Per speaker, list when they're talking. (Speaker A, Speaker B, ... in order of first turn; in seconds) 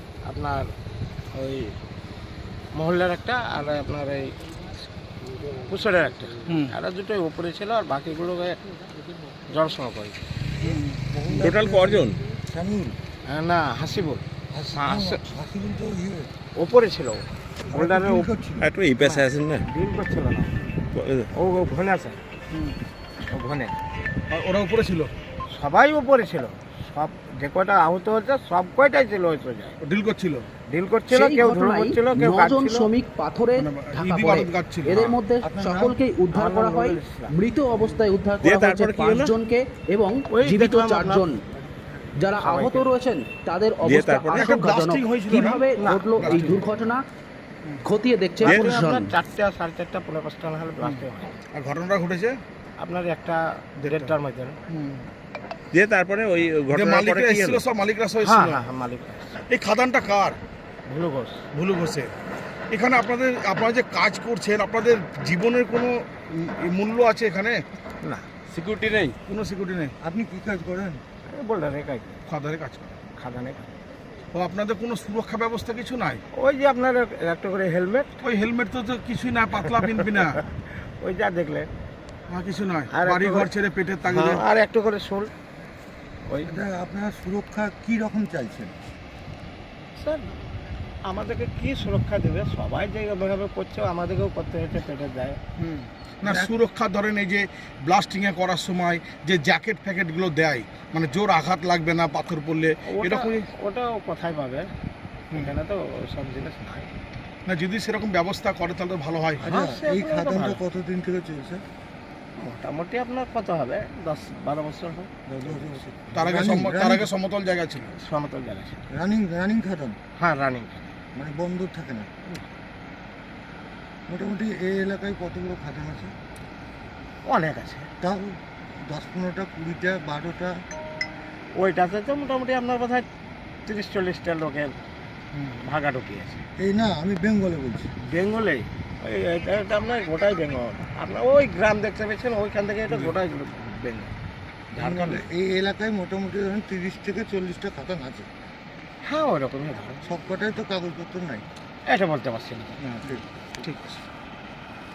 Speaker A: 0.2-0.7, 1.3-1.8, 2.7-4.3, 5.7-8.6, 9.5-10.2, 13.3-15.2, 16.6-18.3, 19.0-20.7, 21.3-22.2, 23.3-23.8, 25.5-29.8, 30.7-32.9, 36.3-37.3, 40.3-41.3, 42.4-42.9, 45.8-46.3, 48.4-51.3, 52.8-54.6, 58.2-59.4, 60.9-61.4, 68.0-68.4, 71.3-72.2, 73.2-73.7, 76.3-78.1, 79.7-81.7, 82.9-83.5, 84.0-85.3, 86.2-86.5, 90.0-90.3, 91.0-95.4, 102.8-104.7, 105.3-106.9, 109.4-110.6, 112.4-115.8, 117.9-118.8, 120.2-120.9, 127.2-127.9, 131.6-133.1, 133.7-134.8, 135.6-136.4, 138.1-144.1, 144.7-145.2, 149.0-150.0, 151.9-153.2
Speaker B: 6.5-6.7, 10.7-11.0, 22.5-22.8, 24.3-25.1, 29.8-30.4, 33.5-35.2, 44.3-46.6, 51.5-52.4, 53.8-54.1, 54.7-55.0, 56.7-58.6, 59.5-60.4, 61.5-62.1, 62.7-67.6, 69.2-69.9, 72.3-73.0, 74.3-76.2, 78.2-80.4, 82.3-84.4, 95.6-103.5, 107.5-109.4, 116.1-117.9, 152.9-153.9
Speaker C: 10.6-12.9, 14.5-16.3, 17.7-18.7, 35.4-36.0, 70.0-71.0, 86.4-88.8, 96.2-96.5, 109.4-111.6, 115.3-117.1, 118.9-120.0, 121.1-122.1, 124.1-126.1, 128.0-130.6, 136.6-137.9, 144.8-148.3, 150.0-151.4
Speaker D: 11.3-12.2, 18.6-19.6, 20.9-21.3, 38.4-39.4, 43.8-44.5, 48.4-48.8, 55.7-57.6, 68.5-69.2
Speaker E: 31.1-41.4, 42.2-47.0, 47.8-49.1